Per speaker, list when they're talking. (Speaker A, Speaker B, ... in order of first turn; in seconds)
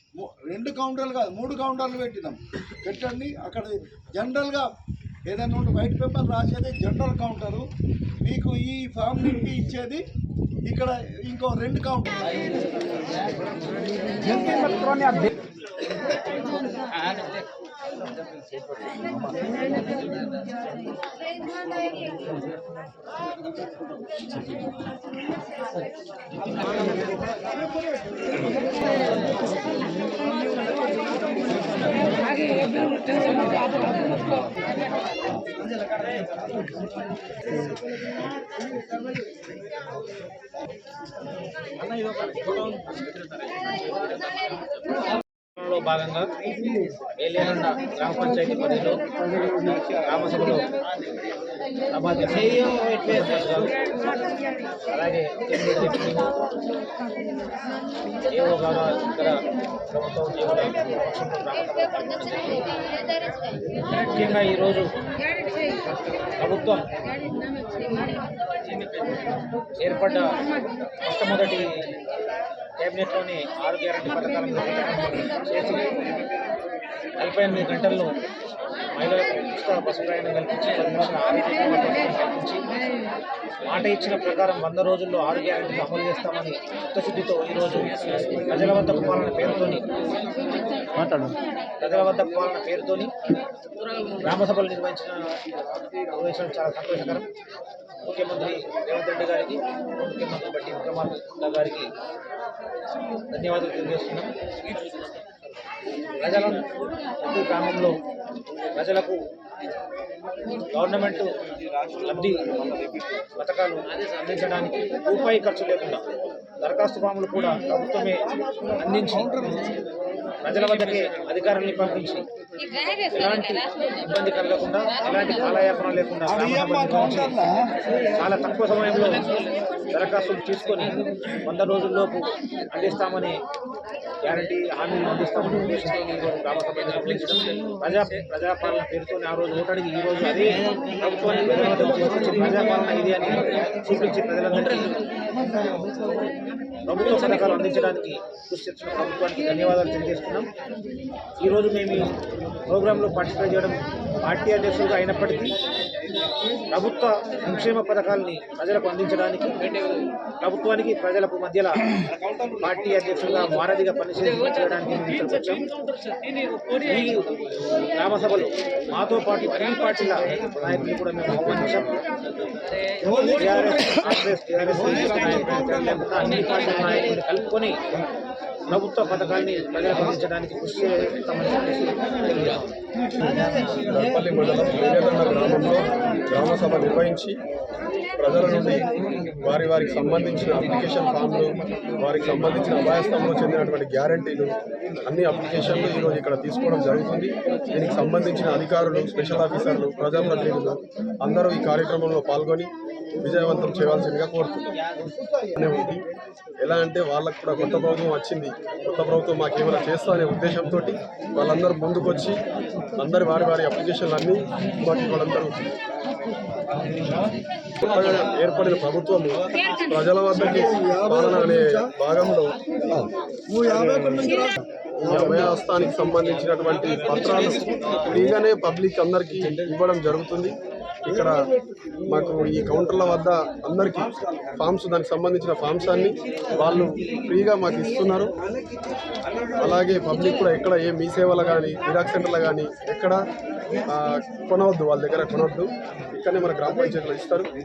Speaker A: 0.2-4.7, 5.2-7.7, 8.2-10.0, 10.6-12.4, 14.2-15.2, 119.2-119.6, 126.2-127.6, 173.0-173.8, 220.4-221.9, 222.8-225.5
Speaker B: 45.5-46.3, 47.2-49.1, 49.7-50.7, 51.9-53.8, 54.9-56.5, 58.3-62.7, 63.9-64.9, 66.4-66.9, 69.8-70.4, 71.0-71.9, 72.8-75.8, 77.2-78.2, 78.9-82.7, 83.6-89.9, 91.8-93.1, 94.2-95.4, 96.1-97.3, 98.0-101.9, 103.3-104.3, 106.2-106.7, 107.2-108.0, 108.8-109.2, 110.7-111.4, 111.9-112.6, 113.3-116.1, 116.6-119.2, 120.4-122.3, 123.0-127.4, 128.1-129.3, 129.9-133.4, 134.2-145.0, 146.8-150.5, 151.4-152.1, 152.7-155.6, 156.7-159.6, 160.4-161.9, 162.6-165.7, 166.9-167.3, 167.9-172.0, 173.2-177.8, 178.7-182.7
Speaker C: 183.7-187.4, 188.2-204.7, 205.6-206.0, 206.6-212.4, 213.0-215.6, 217.8-222.6, 225.0-231.4, 232.1-238.3, 239.6-243.2, 243.9-247.5